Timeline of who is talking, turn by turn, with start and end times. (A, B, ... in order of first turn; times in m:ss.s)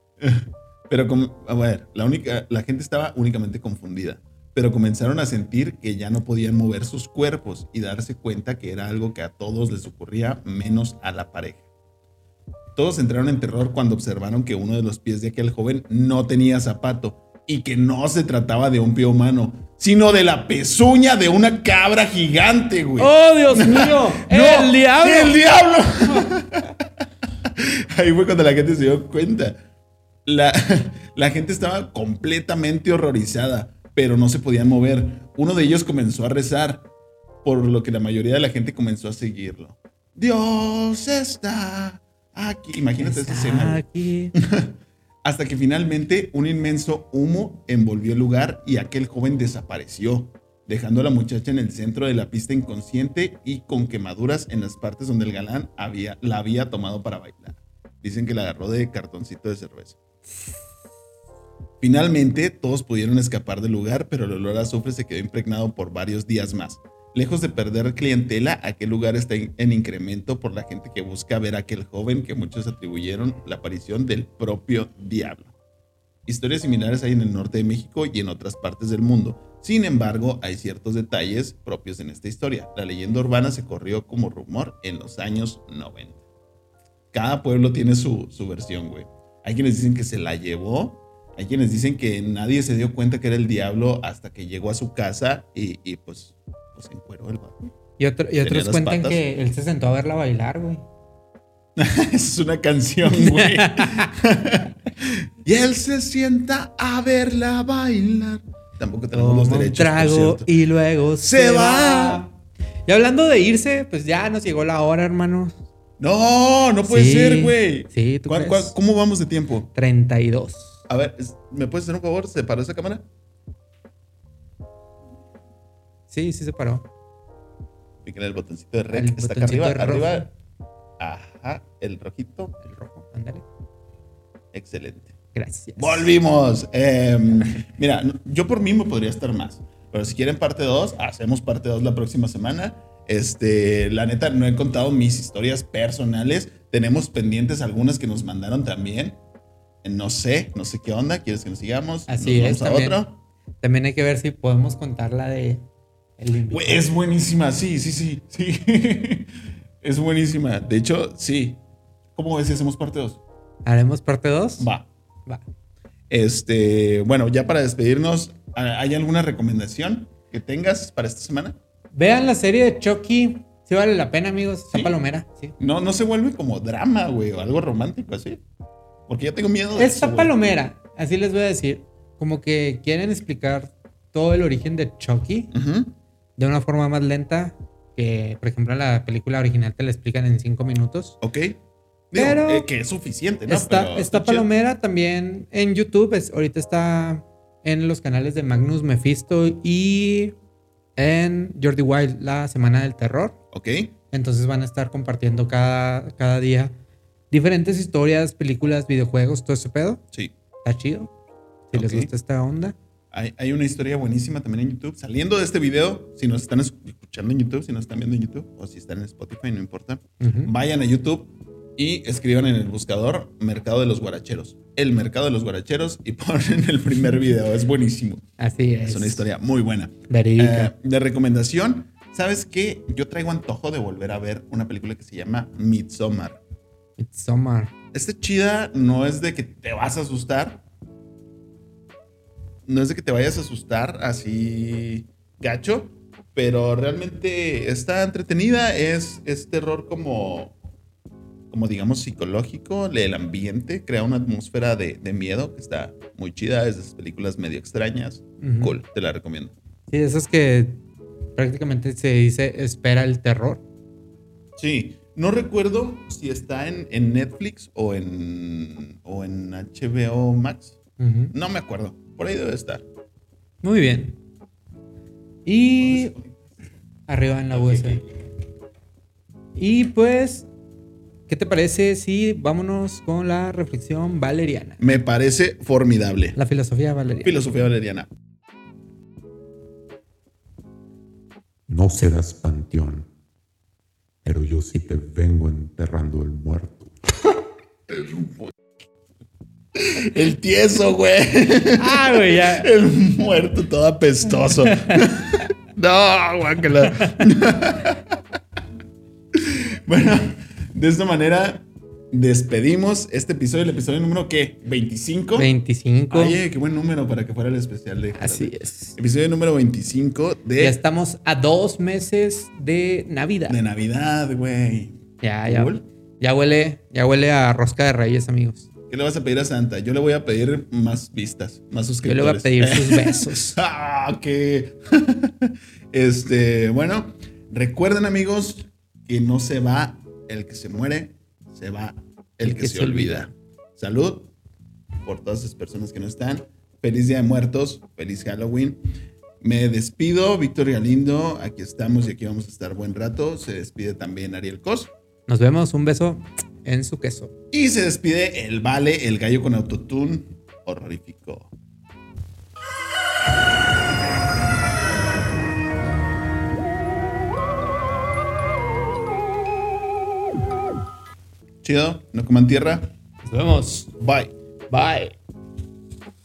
0:00.2-0:11.6 A
0:12.7-0:26.9 A
0:23.0-0:25.4 B
0:27.4-0:29.6 A
0:30.2-0:36.9 A
0:37.4-0:43.8 A
0:43.0-0:44.3 B
0:44.3-1:00.0 A
1:01.8-1:15.5 A
1:16.2-1:26.2 A
1:27.1-1:37.7 A
1:38.0-1:40.8 B
1:38.4-1:39.2 A
1:41.8-1:50.5 A
1:43.0-1:44.1 B
1:49.1-1:52.3 B
1:51.2-1:52.2 A
1:52.9-1:55.6 B
1:56.0-1:59.7 A
1:56.8-1:58.8 B
1:59.7-2:00.8 B
2:00.9-2:03.0 A
2:06.1-2:06.9 B
2:08.0-2:10.3 A
2:08.9-2:10.3 B
2:11.0-2:12.5 A
2:12.6-2:13.4 B
2:14.5-2:15.1 A
2:15.3-2:16.1 B
2:15.8-2:29.2 A
2:29.8-2:33.2 A
2:32.1-2:33.0 B
2:33.6-2:35.6 B
2:36.2-2:36.8 B
2:36.5-2:41.6 A
2:42.2-2:43.2 A
2:43.6-2:44.7 B
2:44.6-2:44.9 A
2:46.1-2:51.6 A
2:51.9-2:55.5 B
2:55.6-2:58.4 A
2:59.1-3:00.5 A
2:59.7-3:05.5 B
3:05.5-3:05.9 A
3:06.4-3:11.2 B
3:11.2-3:11.6 A
3:12.1-3:14.5 A
3:12.1-3:12.7 B
3:13.5-3:20.3 B
3:21.0-3:23.4 B
3:23.5-3:23.9 A
3:24.1-3:26.7 B
3:27.3-3:30.0 B
3:30.6-3:31.1 B
3:31.7-3:32.8 B
3:31.7-3:32.1 A
3:33.1-3:48.2 A
3:40.2-3:40.5 B
3:48.4-3:49.2 B
3:48.8-3:56.4 A
3:50.1-3:50.7 B
3:57.0-3:57.7 B
3:57.9-4:00.6 A
4:02.6-4:10.6 A
4:11.5-4:19.5 A
4:18.4-4:18.7 B
4:19.9-4:20.8 B
4:21.4-4:23.6 B
4:24.6-4:30.8 A
4:31.0-4:31.3 B
4:31.3-4:32.8 A
4:33.6-4:34.2 B
4:35.4-4:36.1 B
4:35.8-4:36.4 A
4:37.1-4:38.0 B
4:37.5-4:38.0 A
4:39.5-4:40.5 B
4:41.3-4:44.8 B
4:44.8-4:46.4 A
4:46.4-4:47.4 B
4:47.2-4:48.1 A
4:51.7-4:53.1 C
4:54.2-4:56.9 C
4:57.9-4:58.5 A
4:59.8-5:08.0 A
5:01.7-5:02.7 B
5:04.6-5:05.0 B
5:06.8-5:07.2 B
5:09.3-5:15.5 A
5:15.4-5:16.4 B
5:16.1-5:20.8 A
5:18.2-5:19.0 B
5:20.6-5:23.6 B
5:23.5-5:25.8 A
5:25.2-5:28.7 B
5:28.9-5:44.3 A
5:32.0-5:33.6 B
5:42.4-5:43.3 B
5:45.0-5:48.8 A
5:49.4-5:54.9 A
5:55.3-5:57.3 B
5:57.5-6:01.5 A
6:11.6-6:12.9 A
6:13.2-6:13.9 B
6:14.0-6:14.3 A
6:14.7-6:15.1 B